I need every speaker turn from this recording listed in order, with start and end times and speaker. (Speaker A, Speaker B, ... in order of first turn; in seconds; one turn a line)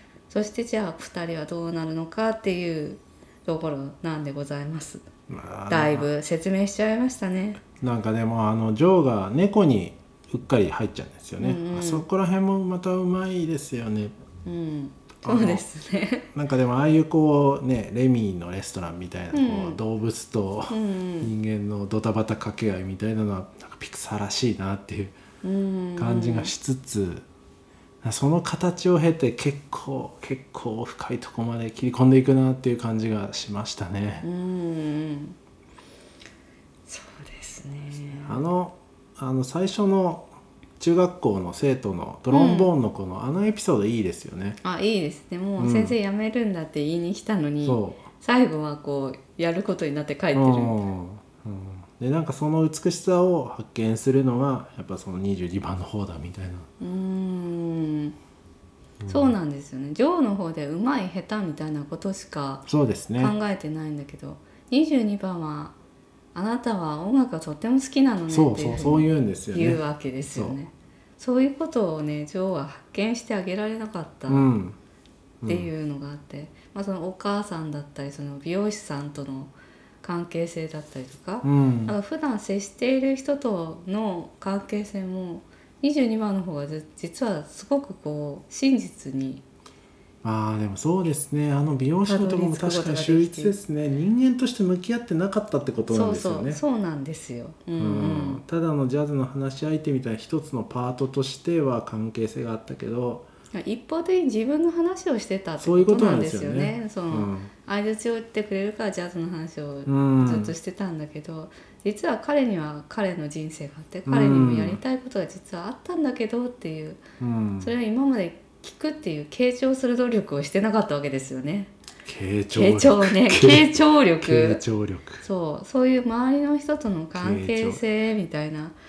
Speaker A: 0.3-5.0
Speaker B: 5.3-6.1
Speaker A: 5.7-7.6
Speaker B: 7.8-14.2
Speaker A: 11.4-12.1
Speaker A: 14.4-16.3
Speaker B: 15.2-15.6
Speaker B: 16.3-25.2
Speaker A: 19.3-19.8
Speaker A: 20.7-21.3
Speaker A: 25.4-26.5
Speaker B: 26.0-27.2
Speaker B: 28.0-34.2
Speaker A: 34.2-35.4
Speaker A: 36.9-38.4
Speaker B: 38.2-40.3
Speaker B: 40.8-44.6
Speaker A: 42.3-42.7
Speaker A: 44.6-50.8
Speaker B: 45.6-45.9
Speaker B: 47.6-48.0
Speaker B: 50.3-56.7
Speaker A: 56.8-58.1
Speaker B: 59.0-59.3
Speaker A: 59.1-65.7
Speaker B: 62.7-63.4
Speaker A: 66.3-74.5
Speaker B: 68.3-70.6
Speaker B: 74.3-74.8
Speaker B: 75.4-75.7
Speaker A: 75.5-89.4
Speaker B: 81.4-82.0
Speaker B: 90.2-96.6
Speaker A: 92.0-93.5
Speaker A: 95.9-98.4
Speaker B: 97.8-103.2
Speaker A: 103.5-117.0
Speaker B: 105.6-107.5
Speaker B: 109.9-110.5
Speaker B: 114.0-114.8
Speaker B: 117.2-117.7
Speaker A: 117.6-121.7
Speaker B: 122.0-125.2
Speaker A: 122.5-124.6
Speaker A: 125.2-128.8
Speaker B: 127.2-127.8